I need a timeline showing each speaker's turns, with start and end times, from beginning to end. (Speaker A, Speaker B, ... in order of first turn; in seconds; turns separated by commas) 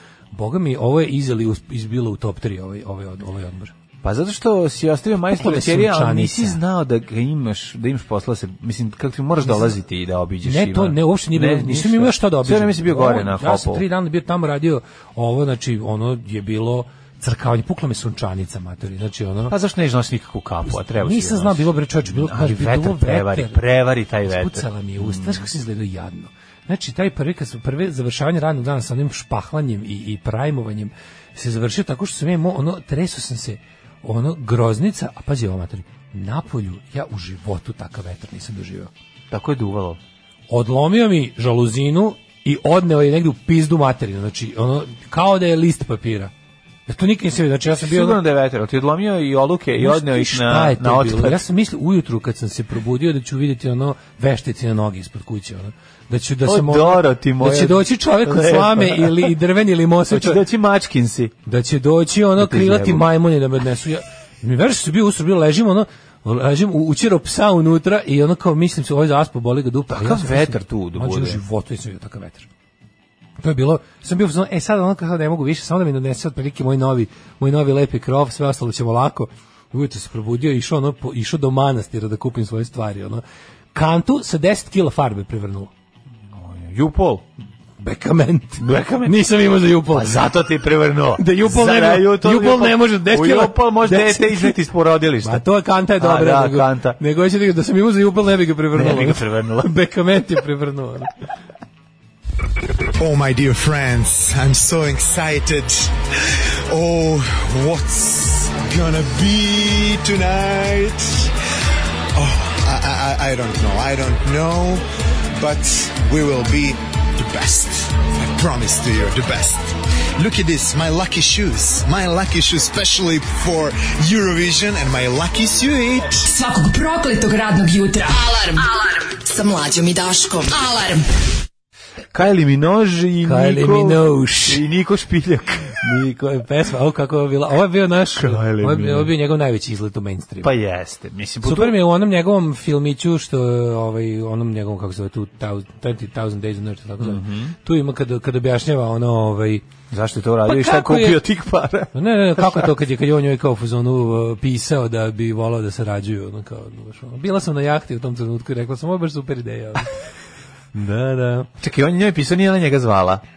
Speaker A: 0.3-3.7, Speaker B: 4.0-13.8, Speaker A: 5.3-6.6, Speaker A: 10.4-19.5, Speaker B: 19.5-25.5, Speaker A: 20.7-23.6, Speaker A: 24.2-38.9, Speaker B: 39.3-40.0, Speaker A: 40.5-46.3, Speaker A: 46.9-48.2, Speaker B: 47.8-51.4, Speaker A: 49.8-60.4, Speaker B: 56.4-59.3, Speaker B: 60.1-61.3, Speaker A: 61.5-72.5, Speaker B: 62.4-63.1, Speaker B: 69.9-71.4, Speaker A: 73.4-83.2, Speaker A: 83.7-85.7, Speaker B: 86.3-87.2, Speaker A: 87.8-90.3, Speaker B: 88.6-89.2, Speaker B: 89.9-95.4, Speaker A: 91.2-94.6, Speaker A: 95.2-101.1, Speaker B: 96.0-97.0, Speaker B: 98.7-99.7, Speaker C: 102.9-111.3, Speaker C: 112.1-114.8, Speaker C: 115.4-126.3, Speaker D: 126.3-131.2, Speaker B: 132.1-136.0, Speaker A: 133.2-134.6, Speaker A: 135.8-140.5, Speaker B: 138.2-139.1, Speaker B: 140.4-141.8, Speaker A: 141.4-149.7, Speaker B: 147.0-147.5, Speaker B: 149.9-152.7, Speaker A: 150.4-151.2, Speaker A: 151.9-159.9, Speaker A: 160.7-161.5, Speaker B: 161.6-163.2